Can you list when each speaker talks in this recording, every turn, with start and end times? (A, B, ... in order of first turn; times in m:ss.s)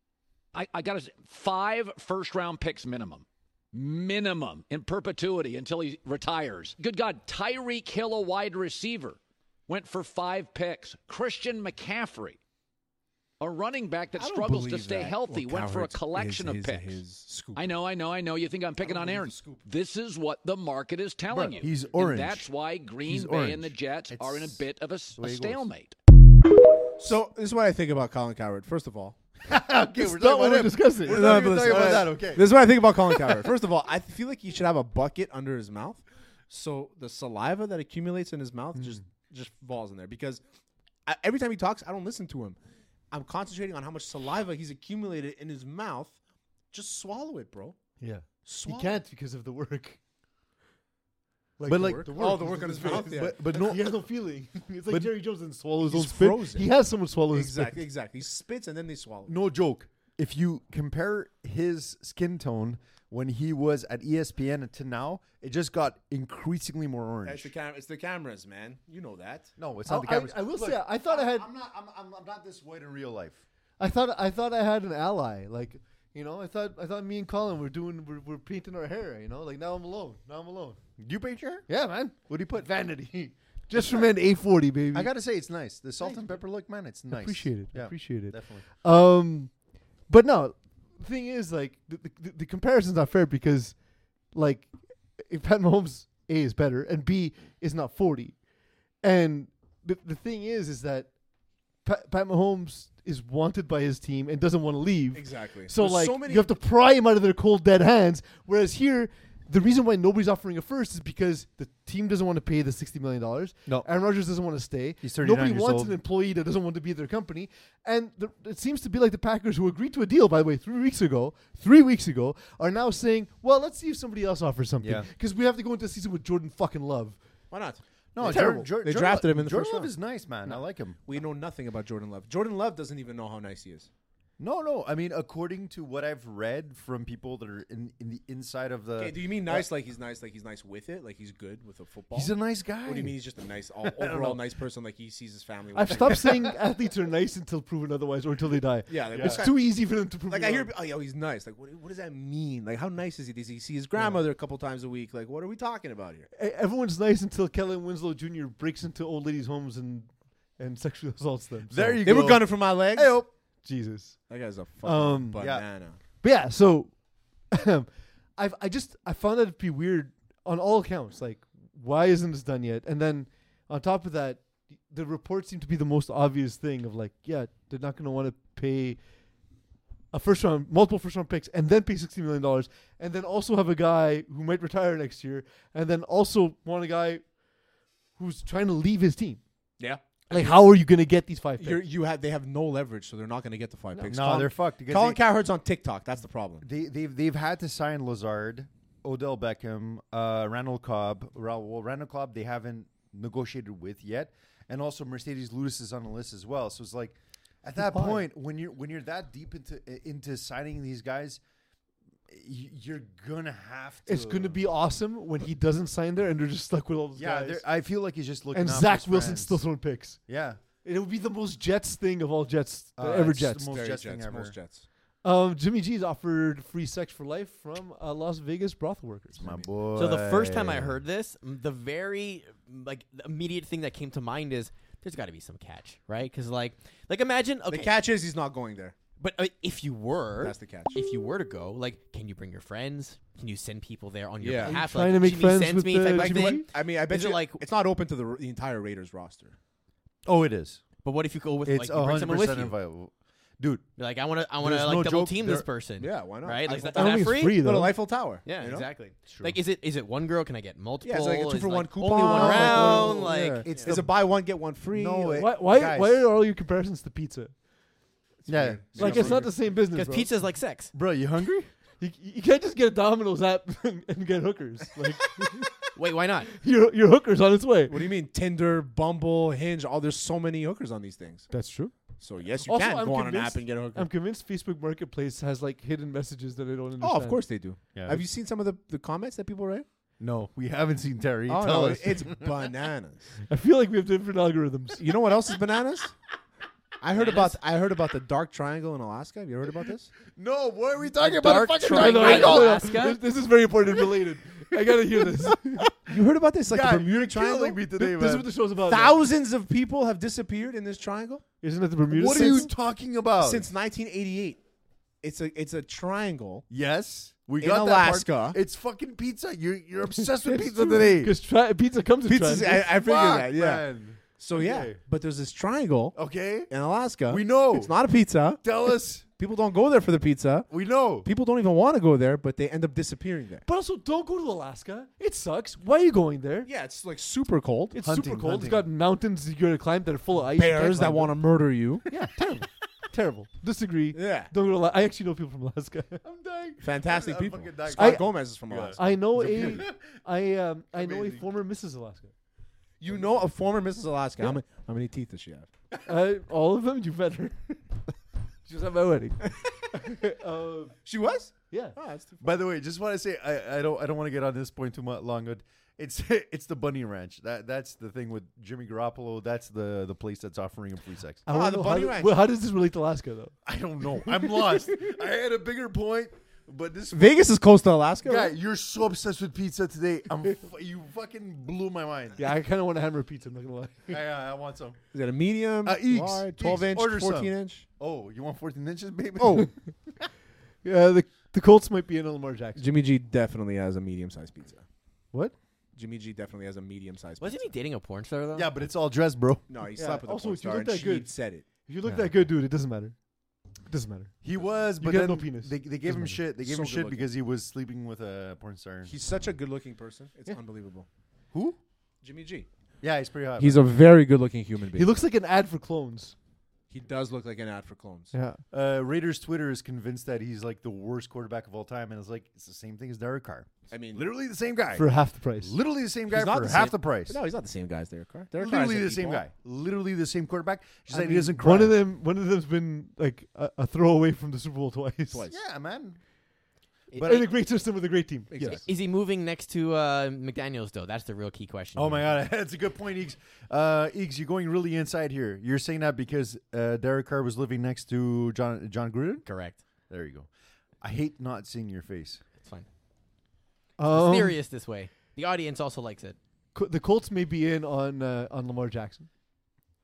0:00.5-0:12.4 A
0:13.4-0:17.0 A
0:14.2-0:17.7 B
0:17.6-0:26.0 A
0:19.0-0:19.4 B
0:21.3-0:22.5 C
0:23.0-0:24.6 C
0:25.2-0:25.7 C
0:27.0-0:29.2 B
0:29.4-0:32.5 C
0:30.0-0:31.5 D
0:31.1-0:40.4 B
0:38.8-0:39.0 D
0:41.1-0:42.6 B
0:43.1-0:46.2 B
0:46.7-0:47.8 B
0:48.0-0:50.0 D
0:48.5-0:48.9 B
0:51.6-0:57.8 D
0:51.7-0:52.2 C
0:51.7-0:53.4 B
0:52.8-0:53.9 C
0:55.8-0:56.7 B
0:57.3-0:59.3 B
0:59.3-1:07.5 C
1:07.2-1:09.5 B
1:09.6-1:13.4 C
1:09.9-1:11.5 D
1:13.8-1:20.8 D
1:21.0-1:21.7 C
1:21.7-1:25.1 D
1:22.3-1:22.7 C
1:23.8-1:24.0 C
1:24.9-1:28.6 C
1:27.1-1:29.6 D
1:30.1-1:33.8 D
1:34.3-1:38.4 D
1:39.0-1:41.1 D
1:41.8-2:07.2 D
1:45.1-1:46.5 B
1:55.0-1:56.0 C
2:04.8-2:05.1 C
2:07.5-2:07.8 B
2:08.2-2:11.0 C
2:08.2-2:08.7 D
2:08.8-2:09.9 B
2:11.1-2:13.9 B
2:14.4-2:19.7 C
2:19.0-2:26.4 B
2:22.1-2:23.2 C
2:23.8-2:24.4 C
2:25.7-2:30.7 D
2:26.1-2:26.4 C
2:28.9-2:36.3 B
2:29.1-2:29.4 C
2:34.0-2:34.2 D
2:36.4-2:42.0 D
2:41.7-2:43.3 C
2:42.0-2:43.2 B
2:43.6-2:44.3 D
2:44.3-2:46.0 B
2:44.8-2:45.4 D
2:45.4-2:45.6 C
2:46.2-2:47.0 D
2:47.5-2:59.0 D
3:00.1-3:07.3 D
3:08.2-3:09.4 D
3:09.8-3:10.6 B
3:10.3-3:11.8 D
3:11.6-3:16.7 B
3:13.9-3:14.3 D
3:14.1-3:15.2 C
3:16.6-3:31.4 C
3:27.8-3:28.2 D
3:32.3-3:34.6 C
3:34.1-3:37.6 D
3:37.2-3:39.6 C
3:38.5-3:40.2 D
3:40.3-3:40.6 C
3:40.8-3:43.7 D
3:43.0-3:44.6 C
3:43.7-3:44.8 B
3:45.2-3:49.6 D
3:49.4-3:51.0 C
3:50.0-3:57.9 E
3:57.7-3:59.0 B
3:59.2-4:07.6 E
4:00.4-4:01.0 B
4:04.4-4:04.8 B
4:04.6-4:06.7 D
4:06.1-4:09.6 B
4:10.3-4:10.8 C
4:11.0-4:12.8 E
4:11.6-4:13.9 C
4:14.0-4:17.6 E
4:14.6-4:15.7 C
4:16.0-4:18.9 B
4:16.9-4:17.9 D
4:18.4-4:24.0 E
4:19.3-4:19.6 C
4:21.0-4:25.5 B
4:22.1-4:24.2 C
4:24.9-4:26.2 C
4:25.4-4:27.5 D
4:28.4-4:29.6 B
4:28.5-4:29.5 C
4:29.0-4:30.3 D
4:29.9-4:30.9 E
4:30.9-4:31.7 C
4:32.0-4:35.7 D
4:36.0-4:36.5 E
4:36.6-4:38.0 D
4:37.9-4:41.5 B
4:41.5-4:42.0 D
4:42.2-4:44.1 B
4:42.6-4:47.4 D
4:47.0-4:49.8 B
4:48.0-4:48.2 C
4:50.2-4:52.5 C
4:51.5-4:53.4 B
4:53.5-4:55.0 D
4:55.0-4:56.2 B
4:57.0-5:00.1 B
5:00.3-5:03.0 C
5:01.2-5:03.2 E
5:01.8-5:05.9 D
5:06.0-5:07.8 B
5:06.7-5:08.5 C
5:08.0-5:09.2 D
5:08.9-5:11.4 B
5:11.6-5:12.7 D
5:12.1-5:13.7 C
5:12.3-5:12.7 B
5:13.4-5:14.6 B
5:15.2-5:16.6 B
5:16.7-5:21.3 C
5:17.6-5:18.6 B
5:20.2-5:22.9 D
5:22.3-5:33.6 B
5:22.8-5:24.9 C
5:26.2-5:26.7 C
5:27.3-5:27.9 C
5:28.6-5:29.2 C
5:30.7-5:31.3 C
5:33.7-5:36.7 D
5:36.7-5:38.0 B
5:37.9-5:41.3 D
5:38.0-5:38.9 C
5:40.5-5:42.1 B
5:42.1-5:46.2 D
5:44.1-5:44.5 B
5:46.2-5:50.0 C
5:46.8-5:49.1 B
5:48.0-5:48.2 D
5:49.0-5:52.3 D
5:51.0-5:51.5 C
5:53.0-5:55.7 B
5:56.1-5:57.8 D
5:58.7-6:01.0 D
6:01.0-6:02.5 B
6:01.7-6:02.0 D
6:02.4-6:11.4 C
6:11.5-6:13.5 D
6:11.5-6:12.4 B
6:13.6-6:17.4 C
6:17.1-6:18.5 B
6:18.2-6:22.4 C
6:22.4-6:24.2 D
6:24.1-6:25.0 C
6:25.1-6:27.8 B
6:25.8-6:30.2 C
6:29.4-6:29.7 B
6:30.8-6:32.8 D
6:32.8-6:34.8 B
6:36.0-6:37.7 B
6:37.4-6:38.7 E
6:38.5-6:39.6 C
6:39.7-6:41.6 B
6:40.0-6:41.3 D
6:41.8-6:43.2 D
6:43.9-6:44.4 D
6:44.4-6:49.1 C
6:45.0-6:46.4 D
6:46.6-6:47.3 B
6:49.1-6:51.1 B
6:52.2-6:52.7 B
6:53.0-6:53.8 C
6:53.6-6:55.2 B
6:55.0-6:56.4 D
6:56.9-6:58.3 B
6:58.3-6:58.6 D
6:58.7-7:05.1 C
7:03.9-7:04.2 B
7:04.9-7:05.8 D
7:05.6-7:07.4 C
7:06.3-7:09.4 B
7:08.5-7:12.0 C
7:11.1-7:15.4 D
7:15.3-7:15.6 B
7:15.5-7:16.2 C
7:17.1-7:17.4 E
7:17.1-7:17.5 C
7:17.2-7:18.8 D
7:18.5-7:18.8 B
7:18.7-7:22.3 E
7:22.0-7:29.5 C
7:29.5-7:29.8 E
7:30.1-7:30.5 C
7:31.0-7:32.4 C
7:32.6-7:32.9 E
7:34.0-7:34.6 D
7:34.1-7:36.4 E
7:36.8-7:39.3 D